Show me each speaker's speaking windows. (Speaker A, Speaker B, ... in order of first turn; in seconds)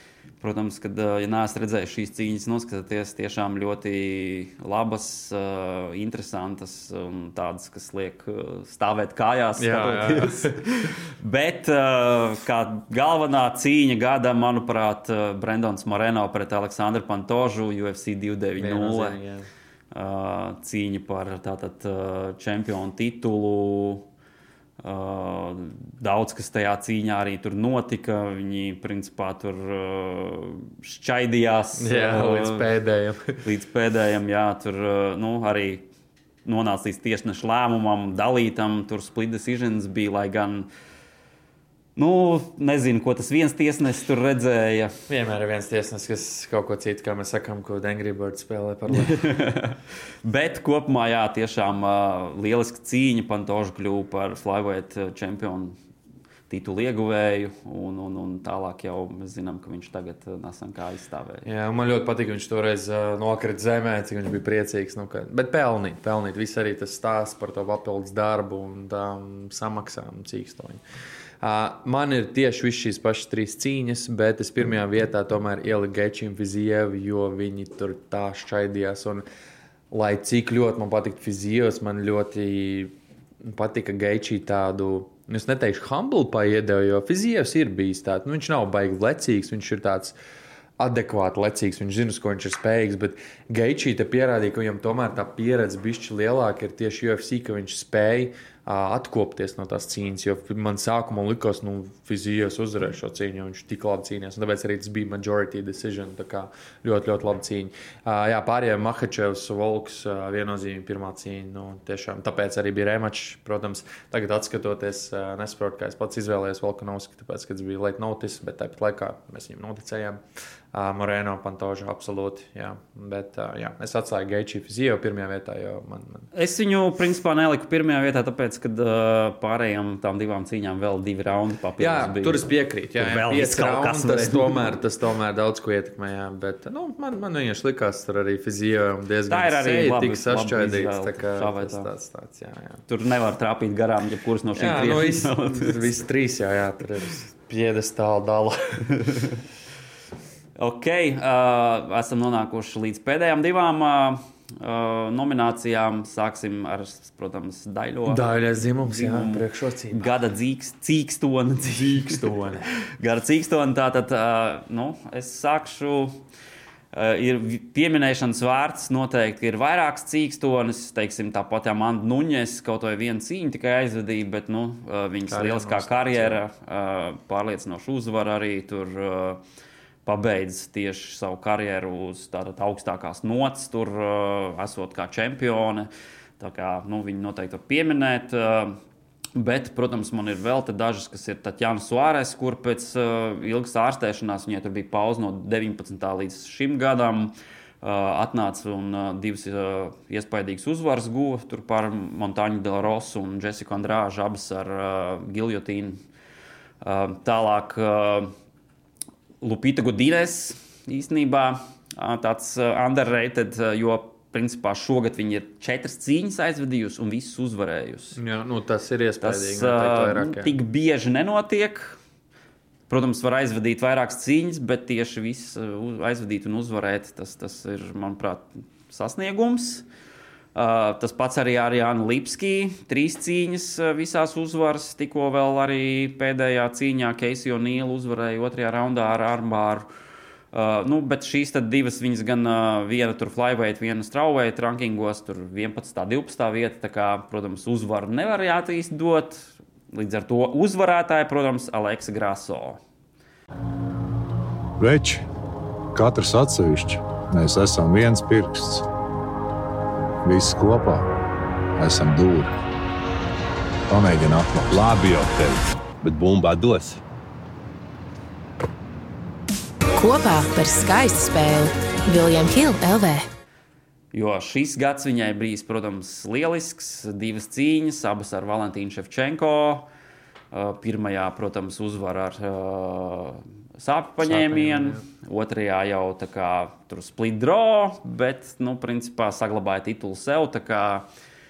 Speaker A: 0.4-19.2, 19.9-24.1, 24.8-32.7, 33.4-35.9, 36.4-40.7, 42.0-44.9, 48.9-55.7, 56.5-61.5, 126.3-134.6, 139.3-141.9, 142.9-145.8, 150.6-162.2, 163.0-166.2, 166.9-179.4, 180.0-188.8, 189.3-206.0, 206.8-208.3, 209.4-218.2, 219.2-222.0, 222.9-229.8, 230.5-239.8, 240.5-252.8, 274.1-279.9, 280.5-291.1
Speaker B: 9.6-10.9, 18.6-19.5, 31.8-33.4, 45.1-49.3, 61.4-70.8, 71.4-79.2, 79.9-90.1, 90.8-120.2, 120.7-126.3, 131.8-142.8, 144.6-149.2, 158.1-160.1, 161.7-162.7, 175.3-176.4, 218.2-220.6, 284.2-285.0
Speaker C: 254.8-255.2, 255.9-258.8, 260.2-261.1, 261.8-262.5, 263.9-264.8
Speaker D: 264.7-267.0
Speaker E: 269.9-273.2